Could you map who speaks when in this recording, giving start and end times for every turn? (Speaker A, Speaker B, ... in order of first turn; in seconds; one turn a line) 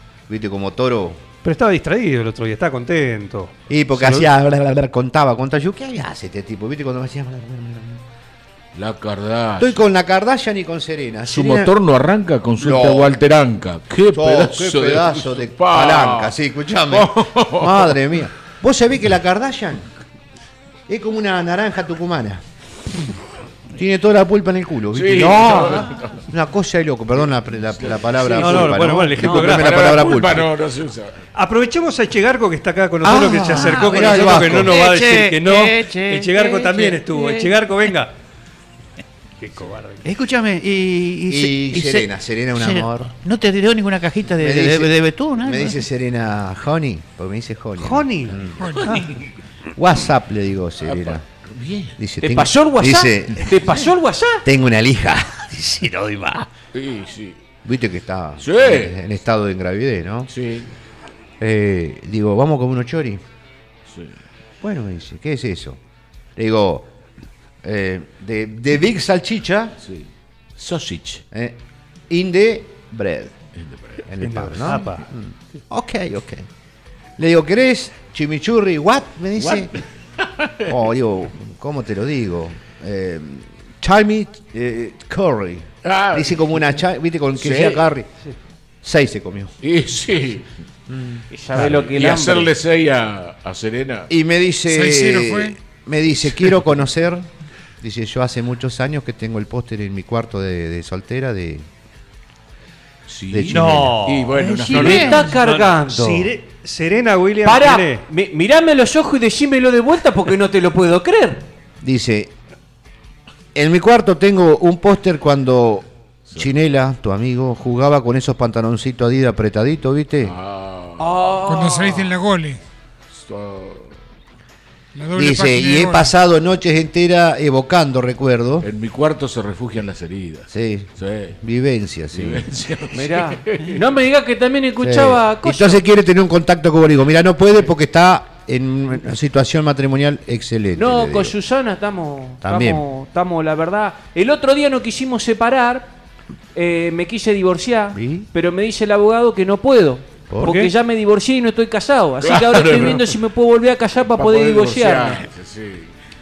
Speaker A: 0.3-1.2
Speaker B: 1.4-4.2
Speaker A: 3.7-8.0
Speaker C: 8.7-9.8
Speaker A: 9.6-11.7
Speaker C: 11.3-16.3
Speaker A: 12.6-13.2
Speaker A: 14.1-19.9
Speaker C: 16.9-17.9
Speaker A: 20.9-22.4
Speaker A: 23.8-30.5
Speaker C: 24.9-26.2
Speaker C: 27.9-31.2
Speaker B: 28.4-30.0
Speaker B: 31.4-38.1
Speaker D: 33.0-37.5
Speaker A: 33.8-34.8
Speaker B: 39.4-40.0
Speaker D: 40.0-45.8
Speaker A: 41.3-43.1
Speaker A: 44.4-48.7
Speaker B: 47.8-49.0
Speaker E: 48.6-48.9
Speaker C: 48.9-49.2
Speaker A: 49.8-51.2
Speaker C: 50.8-52.0
Speaker A: 52.0-53.7
Speaker F: 52.2-54.4
Speaker A: 54.4-56.5
Speaker C: 56.7-57.4
Speaker A: 57.6-60.3
Speaker C: 58.4-59.0
Speaker C: 60.3-60.7
Speaker A: 61.4-63.2
Speaker C: 63.9-64.1
Speaker A: 64.6-65.8
Speaker A: 66.3-66.9
Speaker A: 67.6-69.7
Speaker C: 69.8-71.2
Speaker A: 71.3-71.6
Speaker A: 72.1-73.3
Speaker C: 73.6-74.0
Speaker A: 74.1-76.5
Speaker B: 74.2-75.0
Speaker A: 77.2-79.7
Speaker C: 79.4-80.7
Speaker A: 80.7-88.1
Speaker C: 85.8-86.5
Speaker C: 87.4-87.8
Speaker A: 88.8-89.5
Speaker C: 89.6-90.5
Speaker A: 90.9-91.2
Speaker F: 91.3-92.5
Speaker C: 91.5-94.1
Speaker A: 94.1-97.3
Speaker E: 94.7-95.6
Speaker A: 97.8-101.7
Speaker C: 103.1-105.2
Speaker A: 103.3-104.0
Speaker B: 103.5-108.0
Speaker D: 104.3-105.3
Speaker F: 104.7-106.3
Speaker F: 107.4-111.4
Speaker A: 111.8-112.3
Speaker A: 113.5-120.3
Speaker C: 120.2-121.2
Speaker F: 121.0-122.1
Speaker E: 121.4-122.6
Speaker C: 123.1-123.9
Speaker E: 124.9-126.1
Speaker A: 125.2-128.7
Speaker C: 128.6-131.4
Speaker A: 130.5-132.4
Speaker C: 132.1-133.8
Speaker F: 132.9-135.8
Speaker A: 134.8-141.3
Speaker F: 140.8-145.9
Speaker A: 142.4-142.8
Speaker F: 146.5-155.2
Speaker A: 147.9-148.3
Speaker A: 150.3-150.7
Speaker B: 150.4-150.7
Speaker C: 152.2-153.1
Speaker C: 154.1-155.9